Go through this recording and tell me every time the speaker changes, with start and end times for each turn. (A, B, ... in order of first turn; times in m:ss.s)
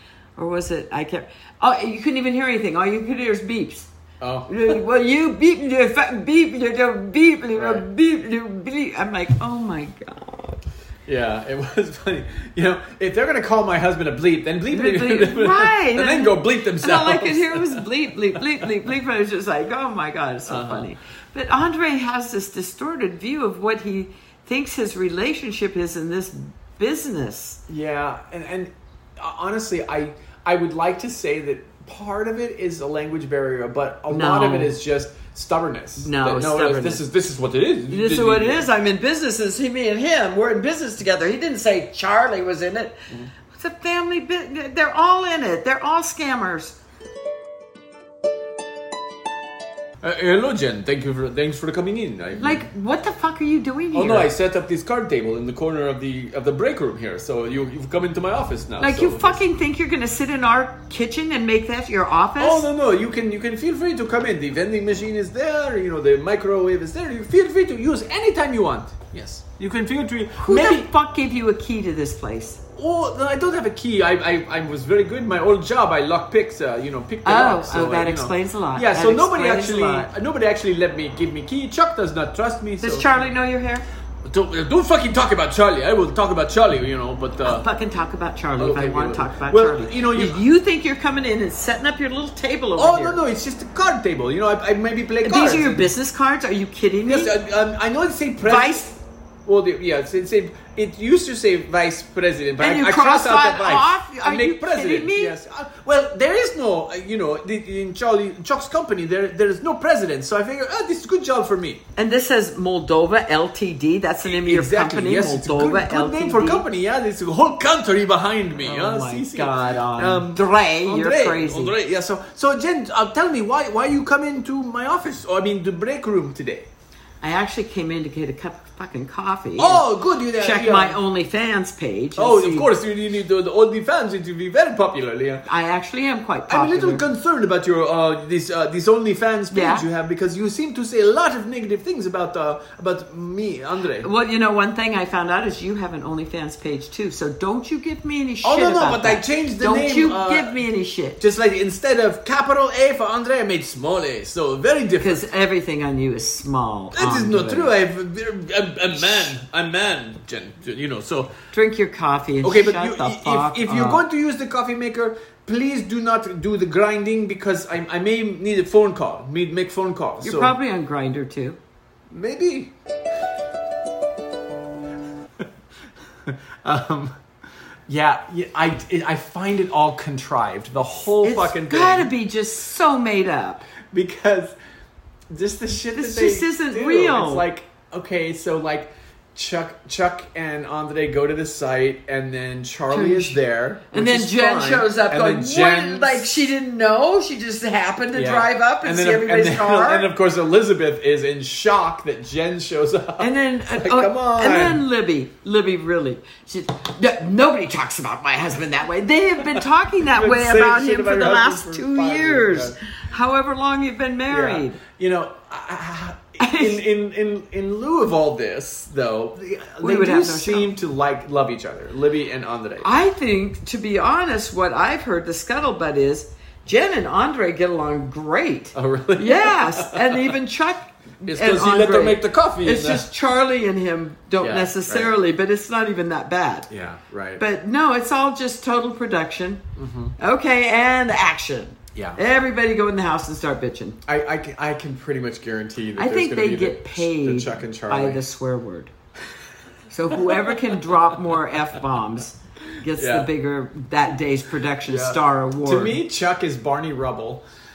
0:00.4-0:03.9 A
0:04.2-0:04.7 B
0:04.5-0:10.6 A
0:07.6-0:07.8 B
0:11.1-0:18.9 B
0:14.7-0:27.6 A
0:20.5-0:20.9 B
0:27.7-0:38.7 B
0:34.1-0:34.8 A
0:36.0-0:37.0 A
0:37.9-0:46.8 A
0:50.0-0:52.7 B
0:52.4-0:54.3 A
0:53.9-0:59.4 B
0:58.8-1:02.7 A
1:02.4-1:10.9 B
1:10.4-1:12.6 A
1:12.8-1:23.1 B
1:17.2-1:20.1 A
1:22.8-1:23.8 A
1:24.2-1:27.6 B
1:27.4-1:33.2 A
1:28.6-1:30.4 B
1:32.8-1:35.9 B
1:35.2-1:37.4 A
1:37.1-1:38.9 B
1:38.4-1:39.0 A
1:39.4-1:51.8 B
1:42.6-1:45.3 A
1:52.0-1:56.7 A
1:54.2-2:06.7 B
1:58.6-2:01.8 A
2:07.2-2:12.7 A
2:09.6-2:11.0 B
2:12.2-2:15.5 B
2:15.5-2:17.0 A
2:16.5-2:24.1 B
2:19.5-2:19.8 A
2:24.0-2:31.2 A
2:28.4-2:30.6 B
2:31.2-2:35.2 B
2:35.0-2:37.7 A
2:36.9-2:41.3 B
2:41.5-2:44.0 A
2:42.4-2:50.6 B
2:50.2-2:51.6 A
2:52.1-2:52.7 B
2:56.2-2:57.2 B
2:57.9-3:02.1 B
3:01.2-3:03.6 A
3:03.9-3:04.6 B
3:05.3-3:16.4 B
3:05.9-3:07.5 A
3:12.9-3:20.1 A
3:18.1-3:24.8 B
3:23.2-3:34.8 A
3:29.5-3:32.8 B
3:34.3-3:42.9 B
3:36.4-3:36.8 A
3:39.8-3:40.7 A
3:42.8-3:56.7 A
3:48.8-3:50.4 B
3:51.2-3:53.1 B
3:54.4-3:55.1 B
3:56.7-3:57.4 B
3:57.4-3:59.6 A
3:59.8-4:00.2 B
4:00.2-4:04.0 A
4:02.0-4:02.2 B
4:04.1-4:08.2 B
4:06.0-4:08.9 A
4:09.9-4:16.0 A
4:10.1-4:11.2 B
4:12.8-4:13.3 B
4:14.8-4:17.4 B